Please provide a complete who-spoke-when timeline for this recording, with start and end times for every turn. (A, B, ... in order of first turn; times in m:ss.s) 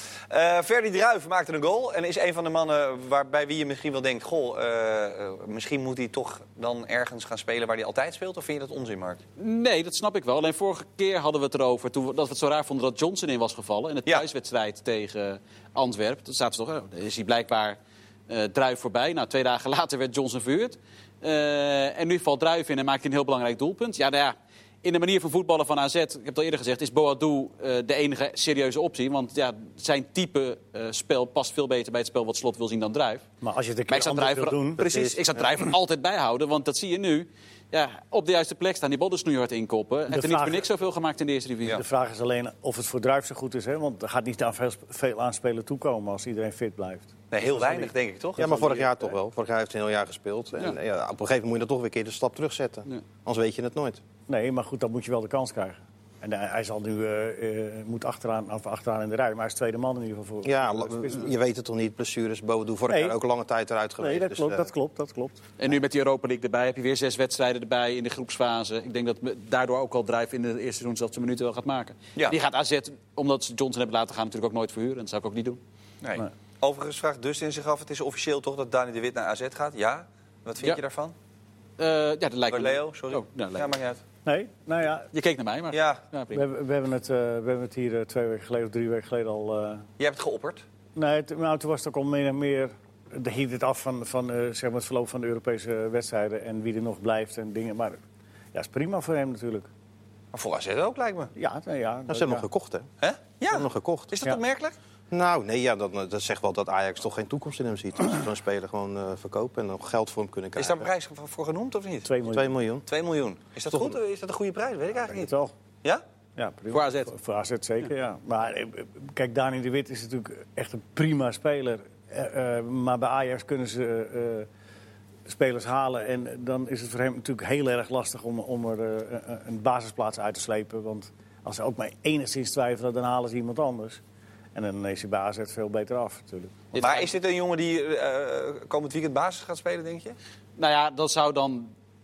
0:00.3-0:09.2 A
0:09.4-0:17.8 B
0:18.3-0:33.3 B
0:33.4-0:34.8 C
0:33.9-0:41.8 B
0:34.8-0:35.4 D
0:40.1-0:40.6 C
0:41.7-0:48.8 C
0:47.3-0:48.8 A
0:48.4-0:54.0 D
0:54.3-1:01.3 C
1:00.4-1:04.7 D
1:02.9-1:03.2 C
1:04.0-1:05.4 C
1:05.6-1:15.6 B
1:16.0-1:21.2 A
1:21.8-1:23.7 B
1:22.5-1:24.0 A
1:24.3-1:25.1 C
1:25.1-1:26.4 B
1:25.7-1:26.0 A
1:26.3-1:29.8 C
1:30.0-1:30.6 A
1:31.0-1:38.0 C
1:38.5-1:39.7 C
1:40.3-1:41.3 A
1:41.4-1:42.5 C
1:42.1-1:42.9 D
1:43.0-1:44.8 A
1:43.5-1:44.1 D
1:45.1-1:50.9 D
1:50.6-1:52.1 A
1:52.1-1:52.6 C
1:52.3-1:52.9 D
1:52.9-1:55.3 A
1:53.7-1:54.0 D
1:55.1-1:55.5 C
1:56.4-2:04.5 C
1:56.7-1:57.1 B
2:05.3-2:14.0 C
2:14.6-2:16.6 C
2:16.7-2:17.1 B
2:16.8-2:20.2 A
2:20.6-2:21.7 B